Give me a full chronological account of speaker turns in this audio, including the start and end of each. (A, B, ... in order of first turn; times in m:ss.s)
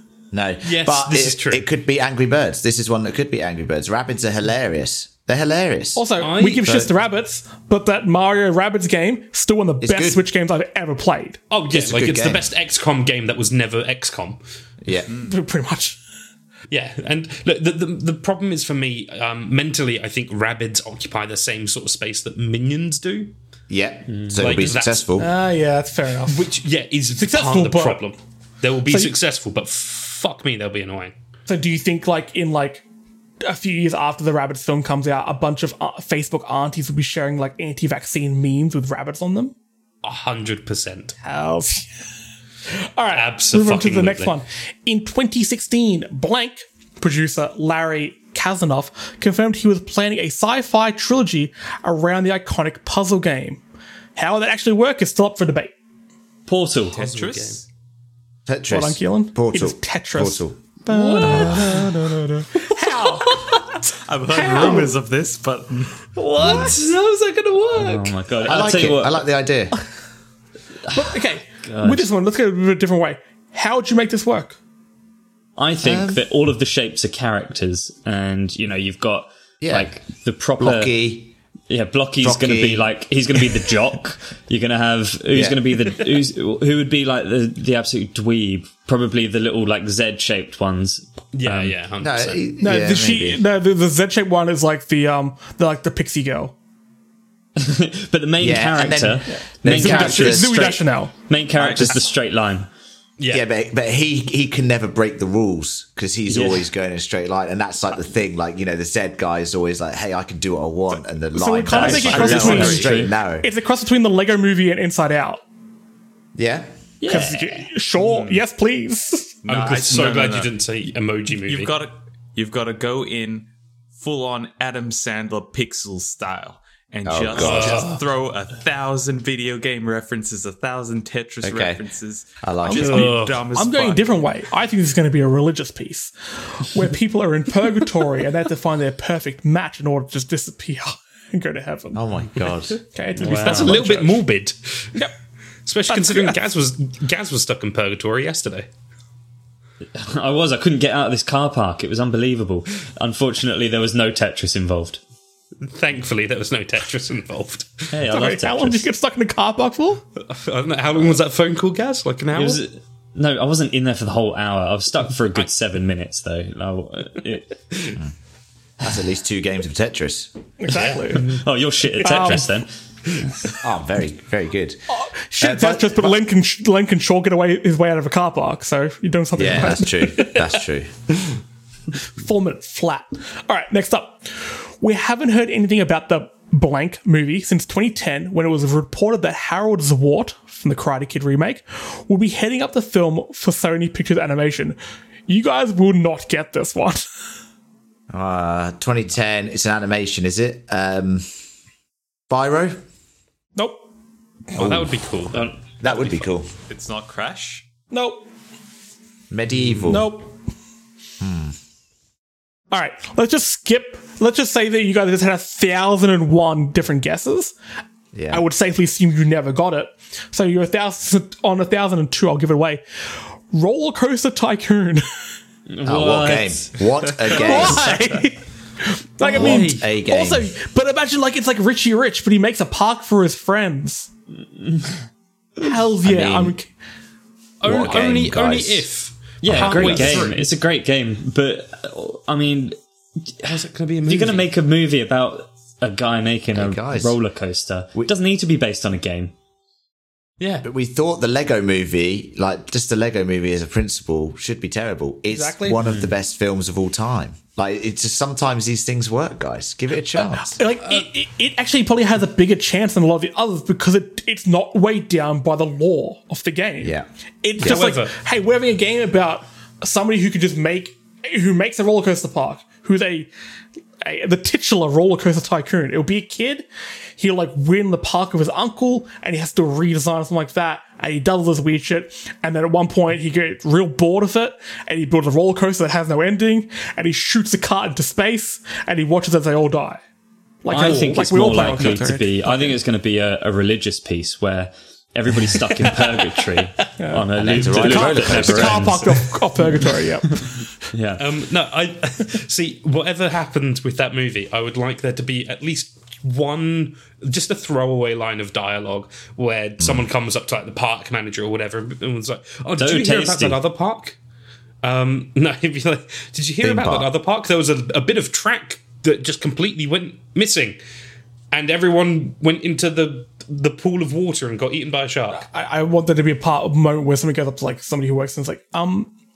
0:00.3-0:06.1 A
0:00.6-0:01.6 B
0:06.0-0:11.4 C
0:06.2-0:06.7 B
0:06.6-0:06.9 A
0:09.8-0:10.2 A
0:11.5-0:14.4 B
0:11.7-0:12.5 A
0:14.8-0:15.1 A
0:15.1-0:15.3 D
0:15.2-0:16.0 C
0:16.7-0:23.3 B
0:23.7-0:25.3 A
0:24.1-0:24.4 E
0:24.4-0:25.1 B
0:25.2-0:26.5 C
0:26.2-0:31.1 B
0:27.2-0:28.0 C
0:28.9-0:29.1 C
0:31.5-0:32.8 C
0:33.4-0:39.5 C
0:40.0-0:41.2 B
0:41.2-0:42.0 C
0:42.6-0:53.6 C
0:43.1-0:44.3 B
0:54.2-0:55.7 C
0:56.4-0:57.0 E
0:56.9-0:57.6 D
0:57.0-0:57.6 B
0:58.5-1:00.6 A
0:58.7-1:03.8 C
1:00.9-1:03.8 B
1:03.9-1:06.1 D
1:04.3-1:04.9 C
1:04.5-1:04.8 B
1:06.3-1:06.8 C
1:06.3-1:08.2 B
1:07.7-1:09.2 E
1:08.4-1:09.7 A
1:10.9-1:12.1 E
1:10.9-1:14.6 C
1:15.6-1:20.9 E
1:15.8-1:16.2 A
1:19.6-1:19.9 A
1:20.6-1:21.3 A
1:21.7-1:31.8 E
1:22.2-1:23.4 A
1:25.3-1:25.6 A
1:31.3-1:32.5 B
1:32.0-1:33.4 A
1:32.6-1:36.5 C
1:37.6-1:42.7 E
1:38.4-1:40.8 A
1:39.3-1:41.1 C
1:41.6-1:42.0 A
1:43.2-1:43.4 B
1:43.3-1:53.5 A
1:46.3-1:46.6 E
1:51.3-1:55.4 C
1:51.7-1:53.1 E
1:51.8-1:52.9 D
1:56.4-1:57.3 A
1:57.0-1:59.4 C
1:58.0-1:58.4 D
1:59.4-2:14.1 D
1:59.5-2:01.8 B
2:07.0-2:07.9 A
2:07.3-2:08.0 B
2:11.4-2:11.8 A
2:12.4-2:13.1 A
2:12.7-2:13.4 B
2:13.5-2:24.2 C
2:21.9-2:22.8 A
2:23.2-2:23.8 E
2:23.3-2:25.0 B
2:25.6-2:28.6 B
2:25.9-2:26.4 C
2:29.9-2:35.0 E
2:35.6-2:37.9 B
2:37.9-2:38.9 E
2:38.1-2:40.0 C
2:40.2-2:42.6 B
2:42.3-2:47.6 E
2:48.8-2:50.3 A
2:50.6-2:51.3 C
2:50.7-2:51.3 B
2:51.1-2:52.7 E
2:52.0-2:52.5 C
2:53.1-2:53.6 B
2:53.2-2:53.5 E
2:53.6-2:56.2 A
2:54.9-3:00.3 C
2:59.4-3:00.9 A
3:00.2-3:00.6 B
3:02.2-3:17.0 C
3:18.1-3:21.2 A
3:22.3-3:22.8 A
3:23.6-3:23.8 C
3:24.5-3:26.3 B
3:24.6-3:26.5 A
3:26.7-3:27.6 D
3:27.9-3:28.2 C
3:29.3-3:30.1 A
3:29.8-3:30.3 C
3:31.2-3:31.5 A
3:32.7-3:37.5 C
3:38.1-3:38.4 A
3:38.3-3:45.0 C
3:45.7-3:47.5 E
3:45.8-3:47.9 A
3:47.3-3:54.1 C
3:49.2-3:49.8 B
3:49.3-3:50.5 A
3:54.4-3:55.0 E
3:55.6-3:56.7 C
3:56.0-3:56.6 A
3:57.6-4:00.4 B
3:57.6-3:58.9 A
3:59.4-4:02.8 E
3:59.5-4:00.0 A
3:59.5-4:00.4 C
4:03.4-4:09.3 E
4:03.4-4:04.5 B
4:06.5-4:07.2 A
4:10.4-4:10.7 B
4:10.6-4:20.6 A
4:15.3-4:15.8 C
4:15.8-4:16.1 E
4:20.2-4:33.3 C
4:26.8-4:27.1 A
4:27.6-4:28.1 B
4:27.6-4:27.9 A
4:34.0-4:36.6 C
4:37.2-4:50.0 C
4:50.6-4:52.8 C
4:50.7-4:59.3 E
4:50.7-4:52.0 B
4:55.8-4:56.4 B
4:57.0-5:00.6 C
4:57.4-4:59.0 A
5:00.4-5:01.2 E
5:01.2-5:14.2 B
5:09.8-5:10.0 A
5:12.8-5:13.6 E
5:14.8-5:20.8 B
5:16.6-5:17.1 A
5:21.5-5:25.5 B
5:25.3-5:29.1 C